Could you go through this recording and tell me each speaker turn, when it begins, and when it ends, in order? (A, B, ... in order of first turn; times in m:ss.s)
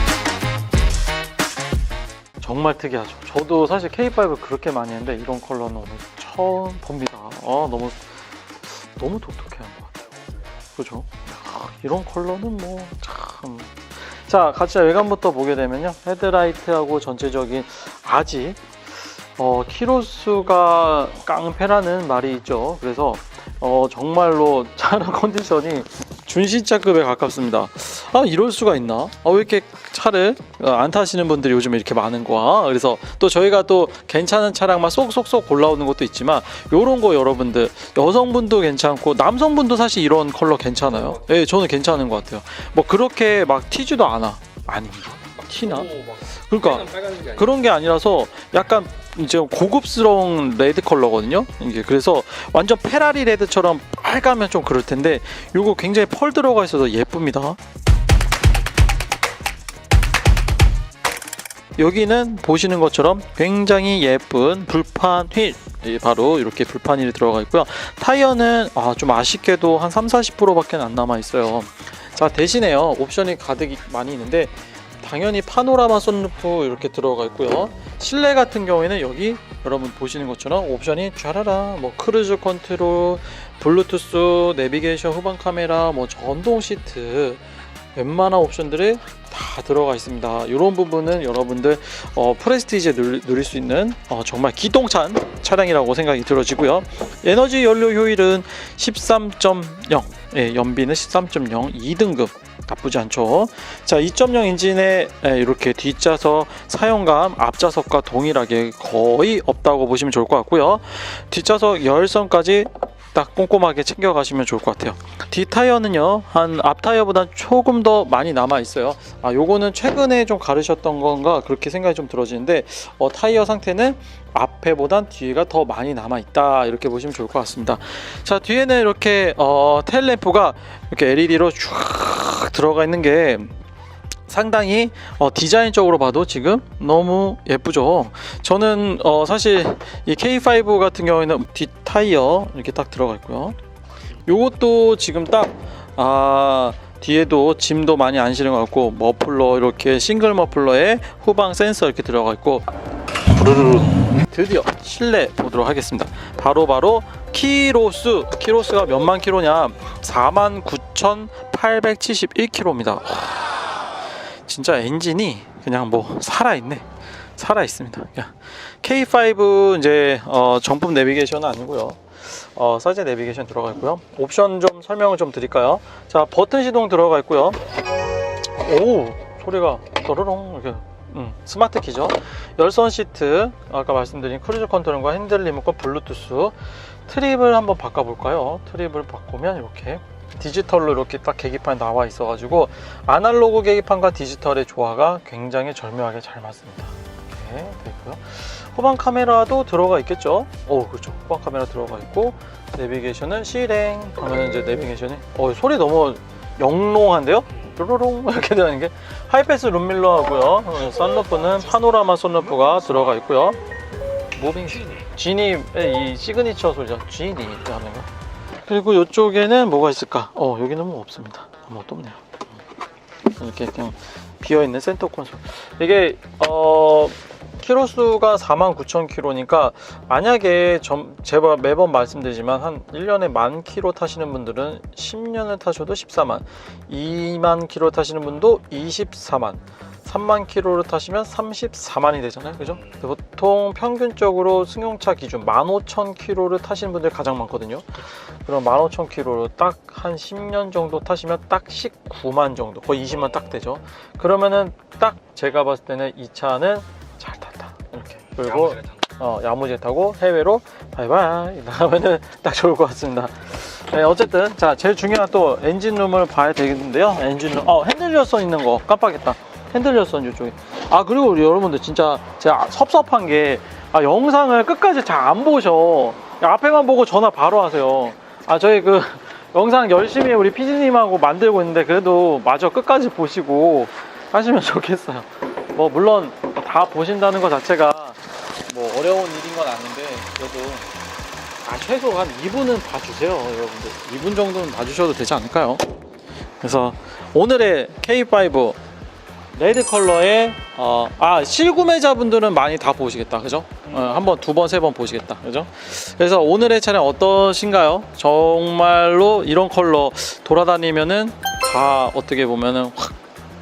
0:02.4-0:10.1 A
0:10.7-0:57.6 A
1:01.8-2:13.5 A
2:14.3-2:23.6 A
2:24.2-2:32.7 A
2:33.4-2:57.6 A
2:58.5-3:33.6 A
3:34.3-3:42.4 A
3:43.2-4:50.9 A
4:51.6-4:56.0 A
4:56.6-4:58.8 A
4:59.5-5:13.2 A